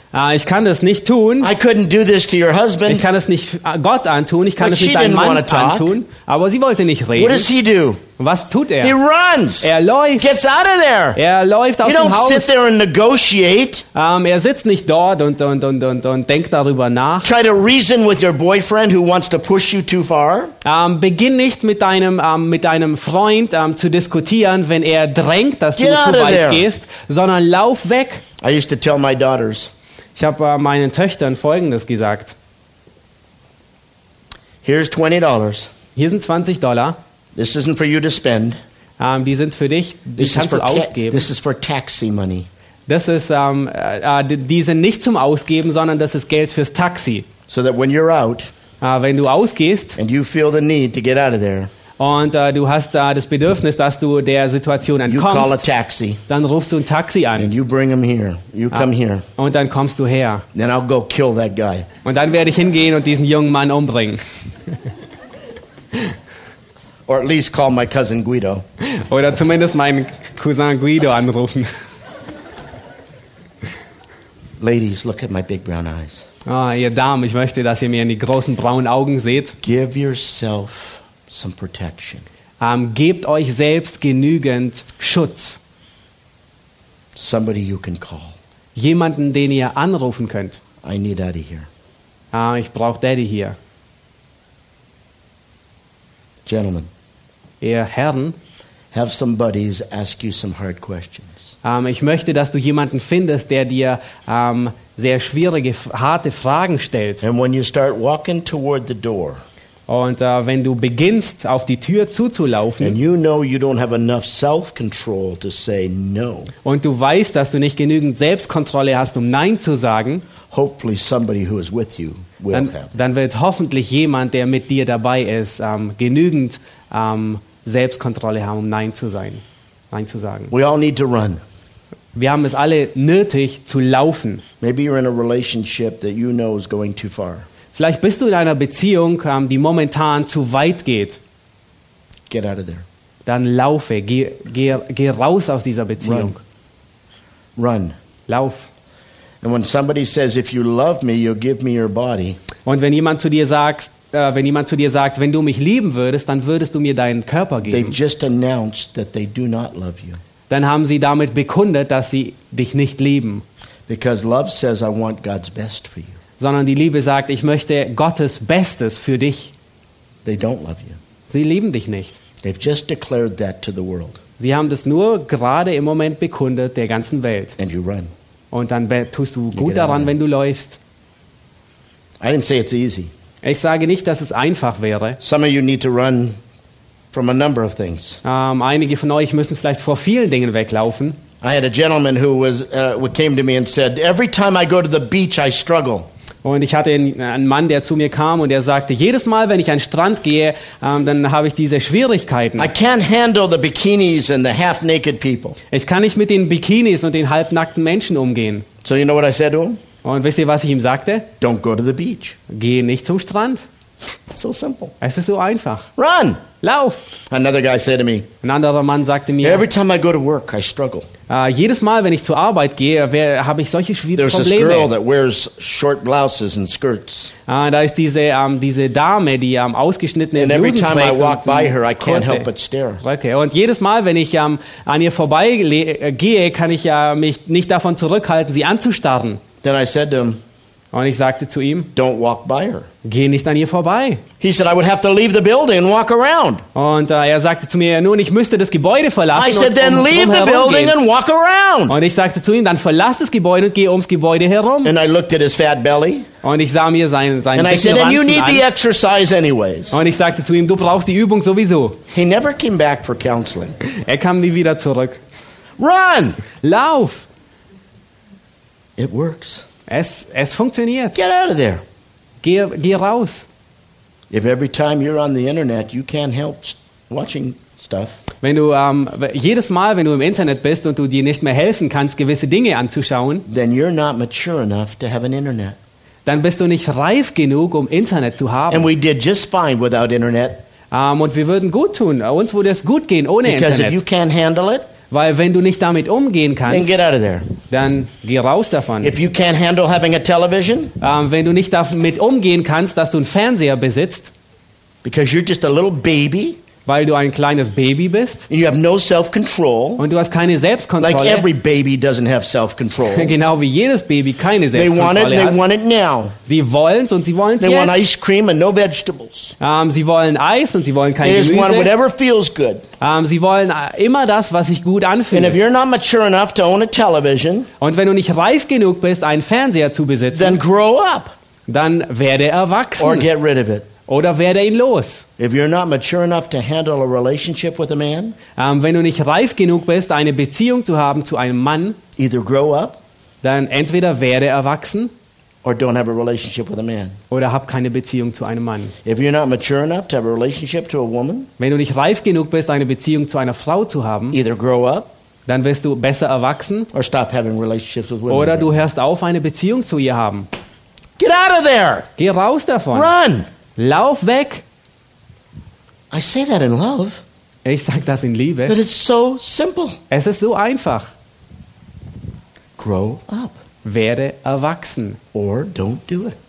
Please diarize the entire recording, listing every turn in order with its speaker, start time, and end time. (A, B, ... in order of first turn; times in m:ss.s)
0:00.1-0:01.5 A
0:01.4-0:03.0 B
0:02.9-0:07.5 A
0:04.6-0:05.9 B
0:07.2-0:08.0 B
0:08.2-0:09.0 A
0:08.8-0:11.2 B
0:09.6-0:10.3 A
0:11.1-0:12.5 A
0:11.8-0:13.8 B
0:13.9-0:17.3 A
0:17.2-0:20.5 B
0:20.6-0:28.2 A
0:25.8-0:26.7 B
0:28.4-0:29.7 B
0:30.2-0:32.3 A
0:34.6-0:35.7 B
0:36.0-0:37.0 A
0:37.3-0:38.6 B
0:39.0-0:41.3 A
0:40.2-0:42.5 B
0:42.9-0:47.3 A
0:47.5-0:48.5 B
0:48.8-0:50.0 A
0:50.0-0:51.7 B
0:52.0-0:55.6 A
0:55.1-0:56.2 B
0:56.3-0:57.5 A
0:57.4-0:59.2 B
0:58.7-1:00.4 A
1:00.5-1:01.9 B
1:02.0-1:04.2 A
1:07.1-1:08.6 B
1:08.8-1:11.8 A
1:14.6-1:16.2 B
1:16.4-1:19.6 A
1:19.6-1:22.2 B
1:22.6-1:25.6 A
1:27.1-1:28.4 B
1:28.7-1:30.6 A
1:30.8-1:31.7 B
1:32.3-1:33.6 A
1:36.4-1:36.9 B
1:37.6-1:38.4 A
1:38.9-1:41.5 B
1:41.6-1:47.2 A
1:47.2-1:49.4 B
1:49.9-1:53.0 A
1:52.8-1:56.5 B
1:56.6-2:00.2 A
2:00.5-2:02.9 B
2:02.5-2:10.5 A
2:10.5-2:11.4 B
2:12.1-2:14.4 A
2:14.6-2:17.4 B
2:17.7-2:21.2 A
2:22.3-2:22.8 B
2:23.2-2:26.4 A
2:26.0-2:26.3 B
2:27.6-2:28.0 B
2:28.3-2:28.7 A
2:29.4-2:32.4 B
2:32.6-2:38.0 A
2:37.7-2:40.2 B
2:40.5-2:43.4 A
2:43.9-2:46.2 B
2:46.4-2:49.5 A
2:50.2-2:51.0 B
2:51.3-2:52.2 A
2:52.4-2:54.2 B
2:54.4-2:57.6 A
2:57.6-2:58.1 B
2:58.5-3:00.8 A
2:59.5-3:00.1 B
3:02.2-3:03.1 B
3:03.4-3:05.2 A
3:05.2-3:06.4 B
3:07.1-3:08.2 B
3:08.2-3:11.2 A
3:11.4-3:16.1 B
3:16.4-3:22.7 A
3:22.6-3:25.6 B
3:25.7-3:28.6 A
3:28.8-3:29.8 B
3:30.0-3:31.3 A
3:31.4-3:32.4 B
3:32.5-3:33.7 A
3:34.3-3:34.9 B
3:35.0-3:35.9 A
3:36.0-3:36.4 B
3:36.6-3:37.0 A
3:37.3-3:38.3 B
3:38.4-3:39.6 A
3:39.4-3:41.1 B
3:41.3-3:44.9 A
3:44.2-3:47.3 B
3:47.5-3:52.5 A
3:50.4-3:53.0 B
3:53.0-3:59.4 A
3:59.6-4:00.4 B
4:00.9-4:01.9 A
4:01.9-4:02.9 B
4:03.0-4:04.2 A
4:04.4-4:06.6 B
4:06.7-4:11.0 A
4:09.3-4:11.9 B
4:11.9-4:14.9 A
4:14.8-4:16.3 B
4:16.4-4:18.6 A
4:17.5-4:20.0 B
4:19.9-4:22.0 A
4:22.1-4:23.8 B
4:23.8-4:25.2 A
4:25.8-4:26.4 B
4:26.6-4:27.2 A
4:29.0-4:29.6 B
4:29.9-4:31.2 A
4:31.1-4:31.8 B
4:32.4-4:33.5 A
4:34.3-4:38.2 B
4:38.4-4:43.4 A
4:43.5-4:45.8 B
4:46.2-4:48.9 A
4:48.7-4:50.6 B
4:50.9-4:54.0 A
4:53.4-4:54.9 B
4:55.1-4:57.0 A
4:56.7-4:57.5 B
4:57.7-4:59.1 A
4:59.0-5:00.9 B
5:01.0-5:04.3 A
5:05.0-5:06.6 B
5:06.8-5:08.5 A
5:08.5-5:10.0 B
5:10.0-5:11.4 A
5:11.0-5:13.3 B
5:13.1-5:15.6 A
5:14.7-5:16.4 B
5:16.4-5:18.0 A
5:17.6-5:19.6 B
5:19.6-5:21.9 A
5:21.2-5:22.8 B
5:23.0-5:25.6 A
5:25.3-5:27.7 B
5:27.8-5:30.6 A
5:30.3-5:31.3 B
5:31.7-5:33.3 A
5:33.0-5:33.9 B
5:34.1-5:35.2 A
5:35.4-5:38.4 B
5:38.6-5:42.0 A
5:42.2-5:43.0 B
5:43.4-5:45.1 A
5:45.6-5:47.2 B
5:47.3-5:48.9 A
5:49.0-5:51.5 B
5:51.6-5:54.4 A
5:54.3-5:55.1 B
5:55.5-5:56.9 A
5:56.9-5:58.7 B
5:58.3-6:00.5 A
6:01.2-6:02.1 B
6:02.2-6:03.1 A
6:02.9-6:03.5 B
6:03.8-6:04.6 A
6:06.1-6:07.2 B
6:07.6-6:08.8 A
6:08.7-6:10.0 B
6:10.1-6:11.1 A
6:12.8-6:13.6 B
6:13.8-6:15.2 A
6:15.3-6:16.4 B